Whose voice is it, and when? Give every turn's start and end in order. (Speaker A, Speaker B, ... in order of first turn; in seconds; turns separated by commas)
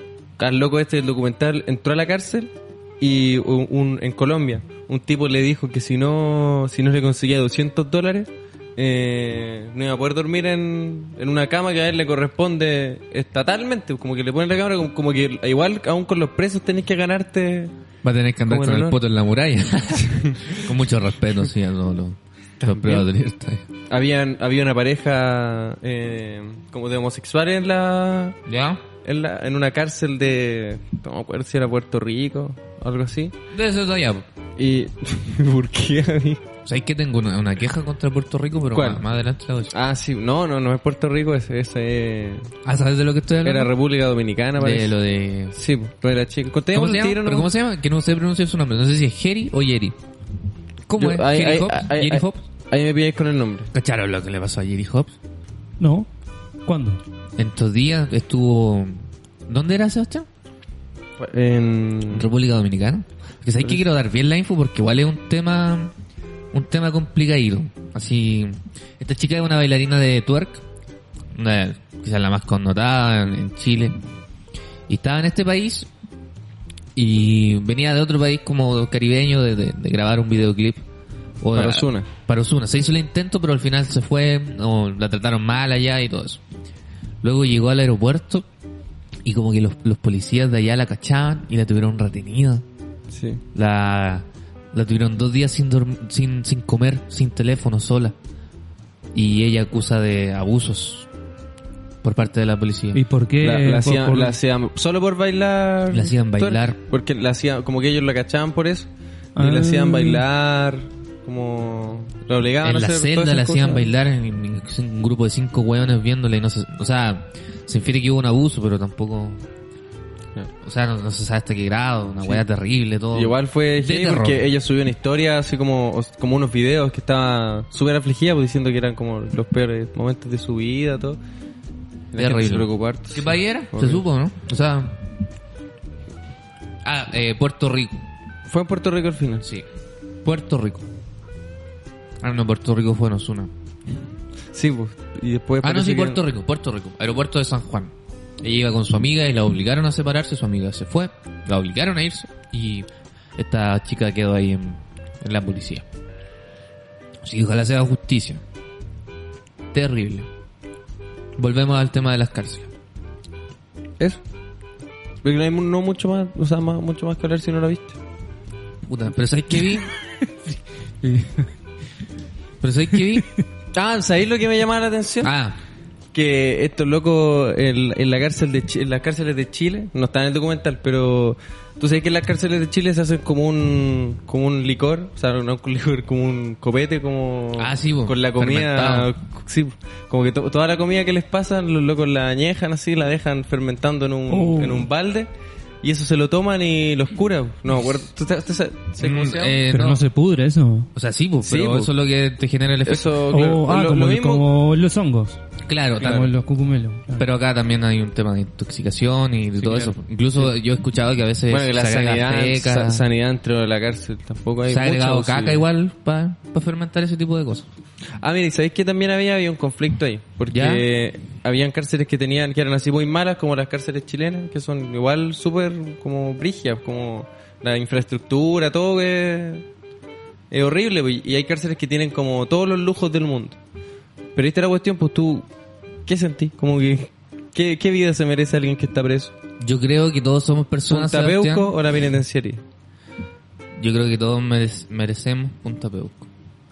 Speaker A: 0.4-17.7, Speaker B: 18.0-23.6, Speaker A: 18.5-19.0, Speaker A: 20.1-20.6, Speaker A: 22.6-23.1, Speaker A: 23.9-28.4, Speaker B: 28.5-28.8, Speaker A: 29.0-33.3, Speaker B: 33.5-34.3, Speaker A: 34.6-36.4, Speaker B: 36.6-39.7, Speaker A: 38.7-39.0, Speaker A: 39.7-42.5, Speaker B: 42.6-43.7, Speaker A: 43.4-45.0, Speaker B: 44.6-45.5, Speaker A: 45.5-47.5, Speaker B: 46.7-50.0, Speaker B: 50.9-52.4, Speaker A: 51.0-53.7, Speaker B: 53.7-55.1, Speaker C: 55.8-56.1, Speaker C: 56.7-57.0, Speaker B: 57.4-60.3, Speaker A: 61.2-62.3, Speaker B: 62.1-65.9, Speaker B: 66.5-70.6, Speaker B: 71.3-74.0, Speaker B: 74.9-75.9, Speaker B: 77.0-80.8, Speaker B: 81.4-86.4, Speaker A: 81.5-82.1, Speaker B: 87.2-88.5, Speaker B: 89.2-92.6, Speaker A: 93.1-93.4, Speaker B: 93.5-98.2, Speaker B: 99.1-101.1, Speaker B: 102.0-103.0, Speaker C: 102.9-104.4, Speaker A: 103.4-113.9, Speaker B: 105.9-106.8, Speaker C: 109.4-110.2, Speaker B: 112.6-119.4, Speaker B: 120.6-124.5, Speaker A: 123.1-131.2, Speaker A: 132.1-134.0, Speaker B: 132.2-135.0, Speaker B: 136.8-138.0, Speaker A: 138.5-139.5, Speaker B: 140.2-140.9, Speaker B: 142.2-143.5, Speaker A: 144.5-146.2, Speaker B: 145.6-155.8, Speaker B: 157.2-158.4, Speaker B: 159.7-160.3, Speaker B: 161.4-162.7, Speaker A: 165.2-168.0, Speaker B: 168.9-169.9, Speaker C: 171.0-171.4, Speaker B: 172.6-173.3, Speaker A: 173.7-175.3, Speaker B: 175.2-175.6, Speaker A: 176.1-195.3, Speaker B: 187.6-189.1, Speaker C: 194.3-194.9, Speaker A: 195.8-199.6, Speaker B: 199.0-200.0, Speaker C: 199.7-200.9, Speaker B: 200.9-203.2, Speaker A: 201.4-201.9, Speaker A: 202.8-204.5, Speaker C: 203.3-205.4, Speaker B: 205.7-206.3, Speaker A: 206.0-206.3, Speaker C: 206.0-207.3, Speaker B: 207.2-213.0, Speaker A: 209.6-209.9, Speaker A: 211.5-215.7, Speaker B: 214.7-217.7, Speaker A: 218.2-229.7, Speaker B: 220.5-220.9, Speaker A: 230.5-233.6, Speaker A: 234.3-235.5, Speaker A: 236.1-239.3, Speaker B: 239.6-241.8, Speaker A: 240.9-242.6, Speaker B: 243.8-246.3